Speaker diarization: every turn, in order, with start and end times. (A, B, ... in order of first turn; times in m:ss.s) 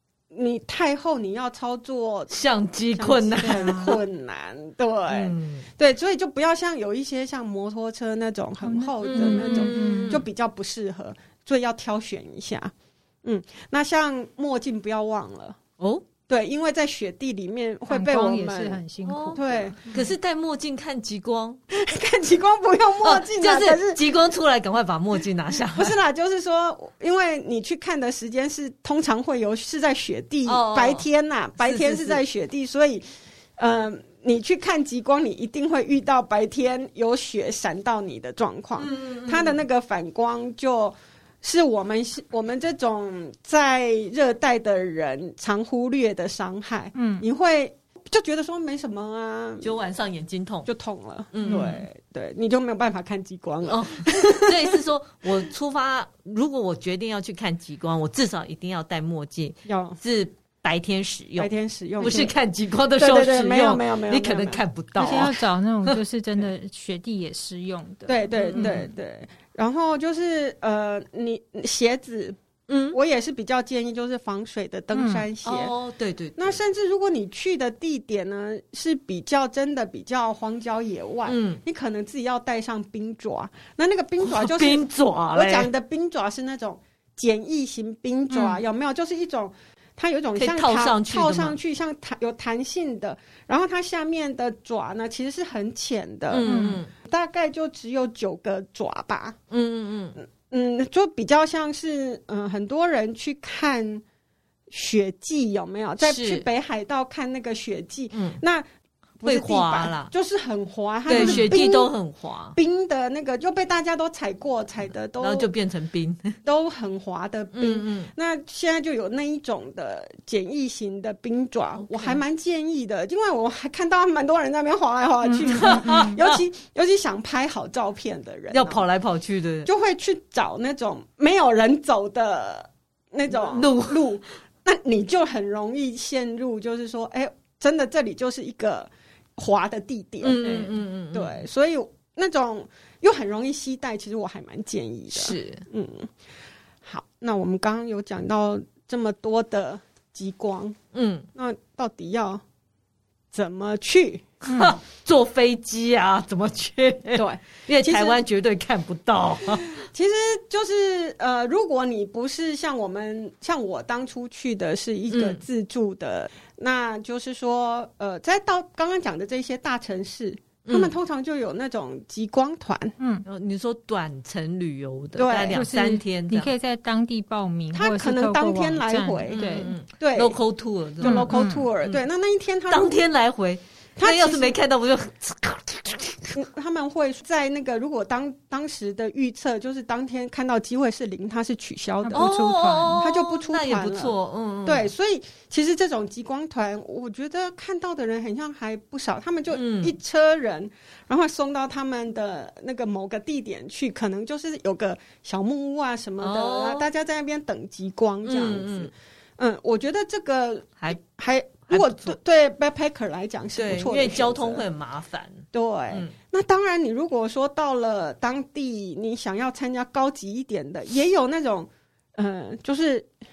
0:00.3-0:02.4 A
0:02.3-0:04.0 B
0:02.9-0:12.7 A
0:03.4-0:04.0 C
0:05.1-0:05.6 B
0:08.6-0:10.2 C
0:09.1-0:10.2 B
0:13.2-0:15.6 A
0:15.8-0:16.0 B
0:16.3-0:18.8 A
0:17.9-0:20.0 C
0:19.0-0:21.6 B
0:19.3-0:19.8 A
0:21.7-0:24.0 A
0:23.0-0:26.0 B
0:25.6-0:33.1 A
0:30.4-0:31.1 B
0:31.6-0:32.2 B
0:33.6-0:49.7 A
0:38.8-0:39.6 B
0:46.9-0:47.3 C
0:49.6-0:50.7 B
0:50.6-0:54.8 A
0:51.3-0:51.8 B
0:51.5-0:51.8 C
0:53.6-1:06.0 B
0:59.6-1:00.0 A
1:01.4-1:02.3 A
1:02.0-1:02.3 C
1:03.0-1:04.6 A
1:05.0-1:08.8 C
1:08.1-1:12.4 A
1:08.4-1:08.9 B
1:12.7-1:13.0 B
1:12.9-1:15.7 A
1:14.9-1:15.2 C
1:15.4-1:16.6 B
1:16.4-1:36.5 A
1:21.2-1:21.6 B
1:24.2-1:25.7 B
1:28.3-1:28.6 C
1:30.4-1:31.6 B
1:36.3-1:36.9 B
1:36.4-1:36.8 C
1:37.0-1:39.4 A
1:39.5-1:40.2 B
1:40.2-1:44.0 A
1:44.7-1:48.6 A
1:46.0-1:46.4 B
1:48.1-1:48.4 B
1:49.2-1:51.9 A
1:49.2-1:50.1 B
1:51.1-1:52.6 B
1:51.1-1:51.5 C
1:52.5-1:55.5 A
1:55.2-1:56.4 B
1:56.4-2:08.8 A
1:57.5-1:58.1 B
2:01.8-2:02.2 B
2:05.3-2:06.2 C
2:05.4-2:06.4 B
2:08.5-2:09.7 B
2:09.6-2:26.1 A
2:13.3-2:14.1 B
2:20.2-2:21.4 B
2:25.1-2:25.6 B
2:26.8-2:30.8 A
2:30.9-2:31.3 B
2:31.3-2:32.4 A
2:33.3-2:34.2 A
2:34.4-2:39.7 B
2:34.5-2:34.8 C
2:37.1-2:38.2 A
2:39.6-2:53.0 A
2:45.1-2:45.4 B
2:50.6-2:50.9 B
2:53.0-2:53.2 C
2:53.2-2:56.5 B
2:55.2-2:55.6 A
2:55.5-2:59.7 C
2:57.7-3:00.4 A
2:59.3-3:02.0 B
3:01.0-3:03.0 A
3:01.0-3:01.7 C
3:02.7-3:06.4 B
3:04.0-3:04.6 A
3:06.3-3:34.6 A
3:12.0-3:13.0 C
3:12.1-3:14.9 B
3:19.5-3:20.0 B
3:26.2-3:26.9 B
3:28.2-3:28.9 B
3:31.7-3:32.1 B
3:33.6-3:36.1 B
3:35.5-3:43.1 A